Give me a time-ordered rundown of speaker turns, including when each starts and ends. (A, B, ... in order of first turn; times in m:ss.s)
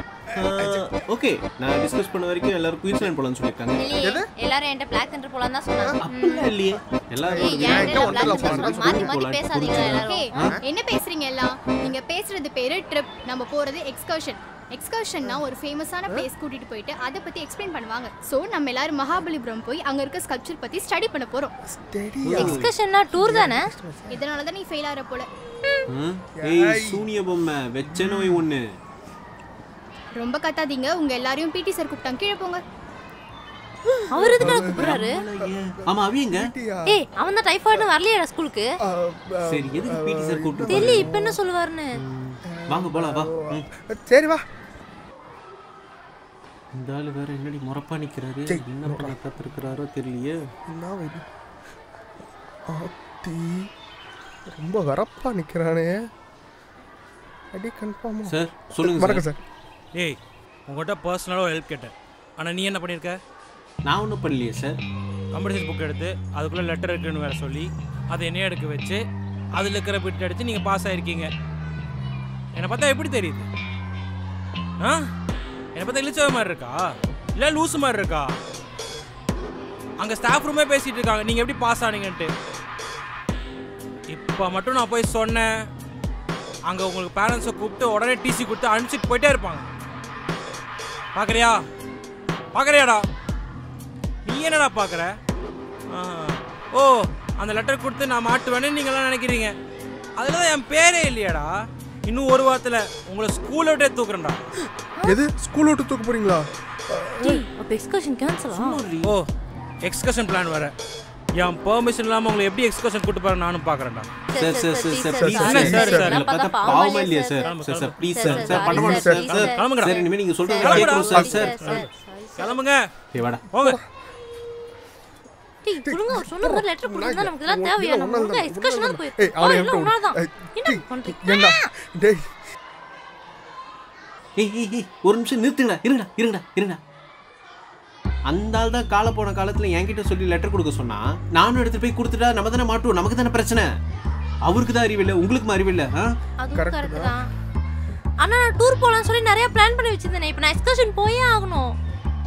0:00.3-0:01.0 A
0:00.4-0:03.8 B
0:03.8-0:06.5 C
0:04.0-0:04.3 A
0:06.0-0:10.6 B
0:07.2-0:09.1 A
0:07.4-0:10.3 C
0:10.0-0:21.5 D
0:21.7-0:24.2 A
0:22.2-0:22.7 B
0:22.4-0:23.7 C
0:24.1-0:25.3 D
0:25.9-0:28.6 B
0:26.4-0:27.1 A
0:27.9-0:28.4 A
0:30.2-0:32.6 D
0:33.9-0:37.0 A
0:34.1-0:35.2 C
0:34.4-0:36.5 B
0:36.9-0:38.7 C
0:38.8-0:41.4 A
0:39.4-0:41.1 B
0:40.7-0:41.9 C
0:42.1-0:43.7 B
0:42.5-0:44.4 A
0:46.8-0:50.5 B
0:48.5-0:49.5 A
0:50.7-0:51.2 A
0:52.7-0:53.7 A
0:54.5-0:56.1 A
0:57.5-0:59.4 A
0:58.3-0:59.2 B
0:59.9-1:03.2 E
1:03.9-1:04.8 B
1:05.3-1:09.0 E
1:09.6-1:11.3 E
1:12.6-1:13.5 E
1:15.8-1:16.8 E
1:17.4-1:18.3 E
1:20.0-1:22.3 E
1:24.1-1:25.5 E
1:26.7-1:29.7 E
1:31.2-1:31.6 E
1:32.5-1:33.0 E
1:34.2-1:35.1 E
1:35.9-1:39.5 E
1:40.2-1:41.5 E
1:42.1-1:44.4 E
1:45.0-1:47.4 A
1:47.2-1:48.8 C
1:48.5-1:49.1 B
1:49.8-1:50.7 E
1:51.4-1:54.1 E
1:54.3-1:57.6 C
1:54.4-2:01.8 B
1:55.1-1:56.2 A
1:55.5-1:56.2 E
1:57.4-1:58.3 E
1:58.1-2:02.6 C
1:58.5-1:59.4 A
1:59.4-2:00.0 E
2:00.6-2:01.8 E
2:01.0-2:01.5 A
2:02.4-2:02.8 E
2:03.1-2:03.4 B
2:03.5-2:03.8 E
2:05.6-2:11.6 C
2:05.8-2:12.3 A
2:14.4-2:16.8 B
2:18.3-2:23.7 B
2:24.5-2:26.1 B
2:26.4-2:27.3 C
2:26.6-2:27.1 A
2:28.2-2:31.8 C